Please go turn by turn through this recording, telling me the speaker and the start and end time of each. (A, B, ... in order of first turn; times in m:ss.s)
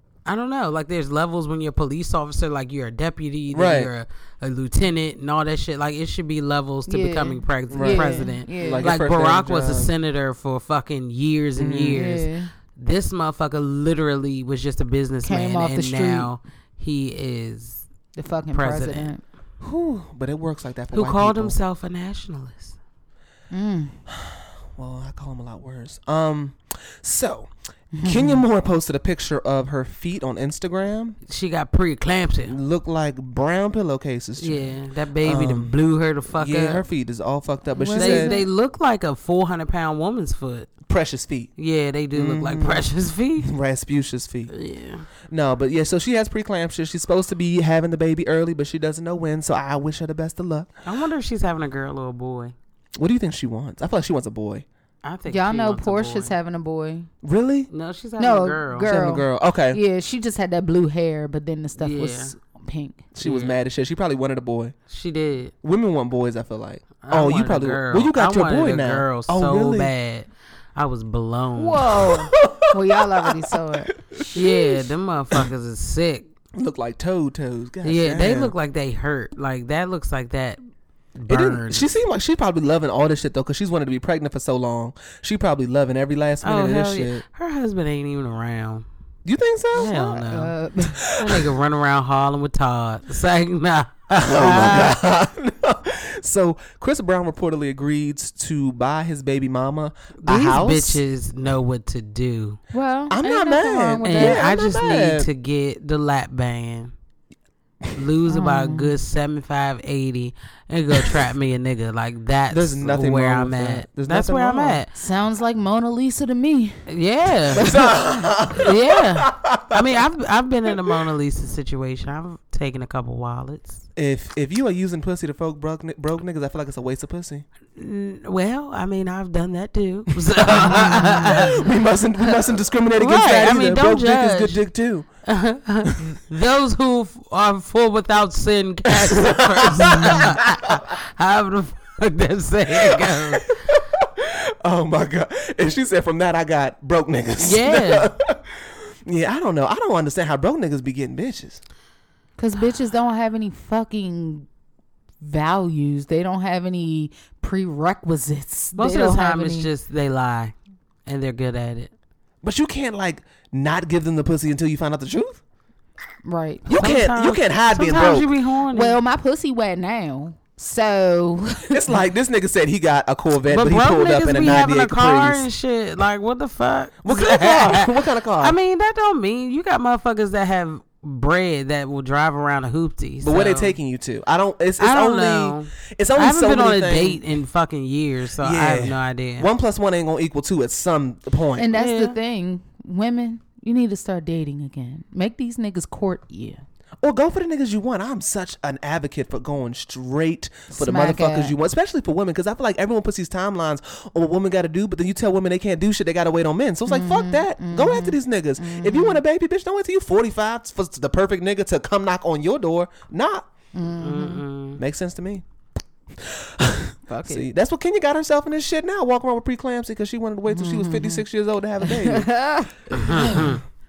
0:00.2-0:17.8 A
0:03.5-0:03.9 B
0:06.9-0:08.9 C
0:07.7-0:09.9 B
0:11.6-0:12.0 B
0:11.9-0:12.5 C
0:15.2-0:16.3 C
0:18.1-0:19.2 C
0:18.5-0:19.1 A
0:19.6-0:21.6 B
0:20.9-0:22.8 A
0:23.5-0:24.0 C
0:24.1-0:27.5 B
0:27.9-0:28.4 C
0:28.0-0:31.2 B
0:31.3-0:32.6 A
0:32.4-0:35.7 B
0:34.4-0:36.8 A
0:36.3-0:38.3 B
0:37.7-0:38.5 C
0:38.0-0:40.7 A
0:40.8-0:41.5 B
0:41.6-0:43.5 A
0:42.1-0:42.9 B
0:43.4-0:44.5 B
0:44.5-0:45.0 A
0:45.3-0:50.7 B
0:50.8-0:52.5 A
0:53.0-0:54.6 B
0:55.0-0:56.3 A
0:55.3-0:57.1 C
0:57.2-0:57.7 B
0:57.7-0:58.9 A
0:58.2-1:03.0 C
0:58.8-0:59.8 B
1:01.8-1:02.3 A
1:03.1-1:04.7 B
1:03.2-1:03.6 A
1:04.9-1:05.5 A
1:05.6-1:09.9 B
1:07.0-1:12.0 A
1:11.6-1:13.9 C
1:12.0-1:14.8 B
1:14.3-1:16.3 A
1:16.5-1:18.5 B
1:17.8-1:20.6 A
1:21.2-1:21.8 A
1:21.3-1:27.2 B
1:26.4-1:28.8 A
1:29.2-1:29.9 B
1:29.7-1:30.5 A
1:29.8-1:31.0 C
1:31.0-1:31.5 B
1:31.1-1:35.0 A
1:34.1-1:41.0 B
1:40.2-1:42.6 A
1:42.7-1:44.5 C
1:43.1-1:45.3 B
1:44.0-1:46.9 A
1:47.9-1:54.9 A
1:48.3-1:48.9 C
1:52.5-1:54.8 B
1:54.9-1:56.8 C
1:56.9-1:57.7 A
1:57.5-2:00.0 B
1:57.6-1:57.8 C
1:58.6-2:03.8 A
2:04.0-2:07.4 B
2:07.8-2:11.7 A
2:10.4-2:15.1 B
2:13.0-2:14.6 A
2:15.2-2:23.6 A
2:18.9-2:20.7 B
2:22.7-2:31.6 B
2:27.4-2:28.1 A
2:32.4-2:34.5 C
2:35.2-2:39.7 C
2:38.8-2:40.5 A
2:41.0-2:41.9 A
2:42.4-2:45.4 B
2:46.2-2:46.8 C
2:46.6-2:48.3 B
2:46.8-2:49.0 A
2:48.7-2:52.0 C
2:51.7-2:55.5 B
2:53.4-3:03.8 A
2:57.0-2:58.6 B
3:03.2-3:07.2 B
3:04.8-3:09.5 A
3:08.4-3:11.7 B
3:11.6-3:16.6 C
3:11.7-3:12.1 A
3:17.0-3:33.5 B
3:20.7-3:21.5 C
3:26.9-3:29.2 C
3:33.7-3:34.4 C
3:34.0-3:34.8 A
3:34.8-3:35.4 B
3:36.2-3:42.3 B
3:37.1-3:37.5 C
3:40.5-3:41.2 C
3:41.8-3:43.4 C
3:42.9-3:43.6 A
3:42.9-3:43.6 B